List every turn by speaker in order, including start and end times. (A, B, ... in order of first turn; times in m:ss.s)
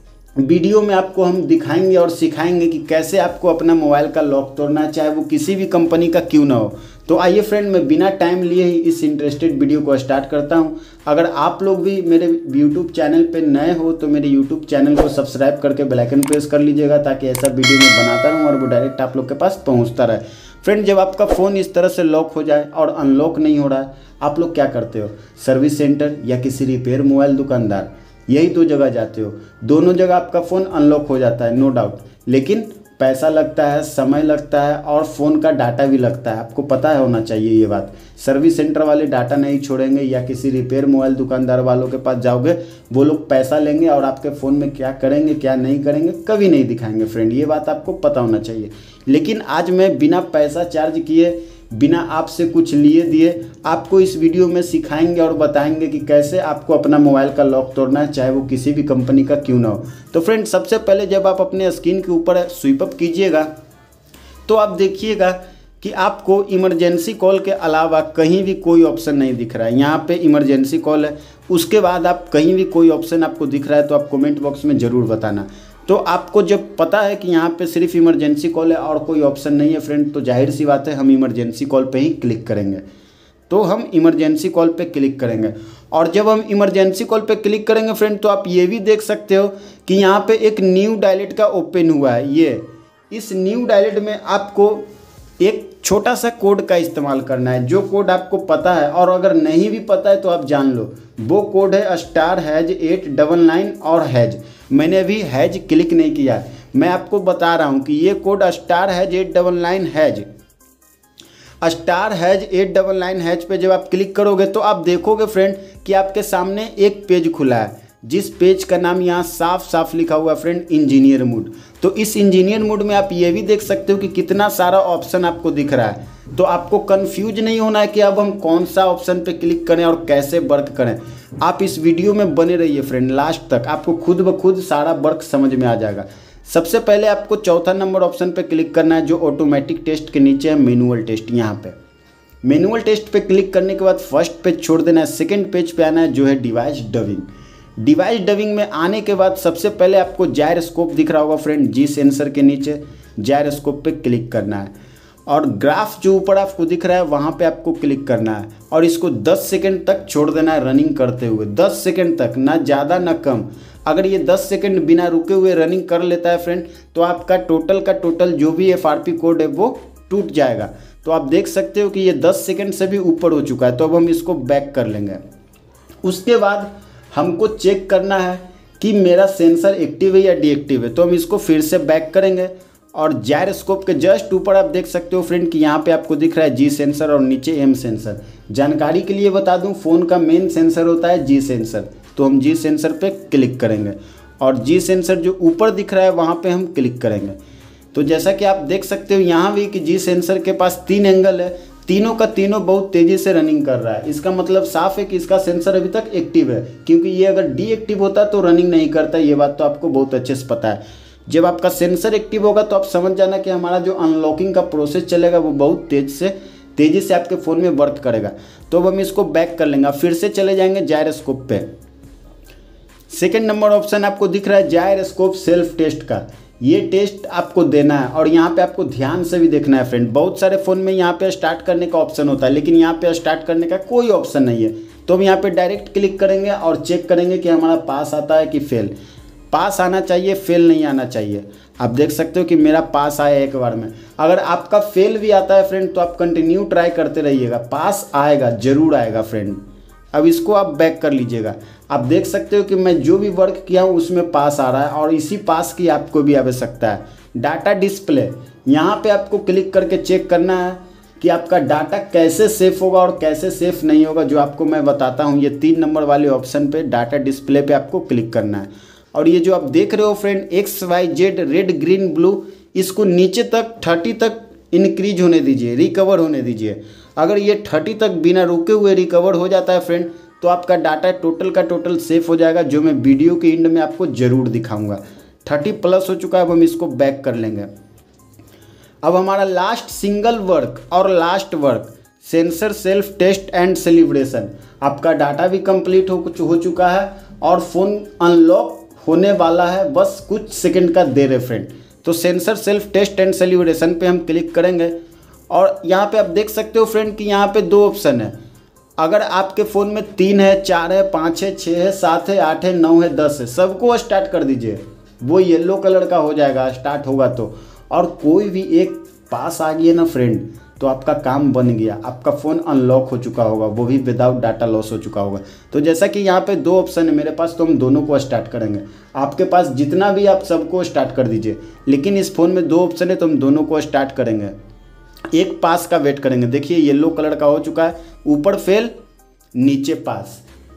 0:00.4-1:03.5 A
1:04.5-1:22.8 A
1:23.5-1:34.8 A
1:35.4-1:50.3 A
1:51.6-2:21.8 A
2:22.4-2:27.3 A
2:27.8-2:34.7 A
2:35.3-2:55.2 A
2:56.0-3:17.4 A
3:17.9-3:41.7 A
3:43.1-3:58.9 A
3:59.5-4:09.6 A
4:10.1-4:47.7 A
4:49.0-5:04.9 A
5:05.5-5:08.3 A
5:09.0-5:34.5 A
5:35.3-5:38.9 A
5:39.6-5:40.4 A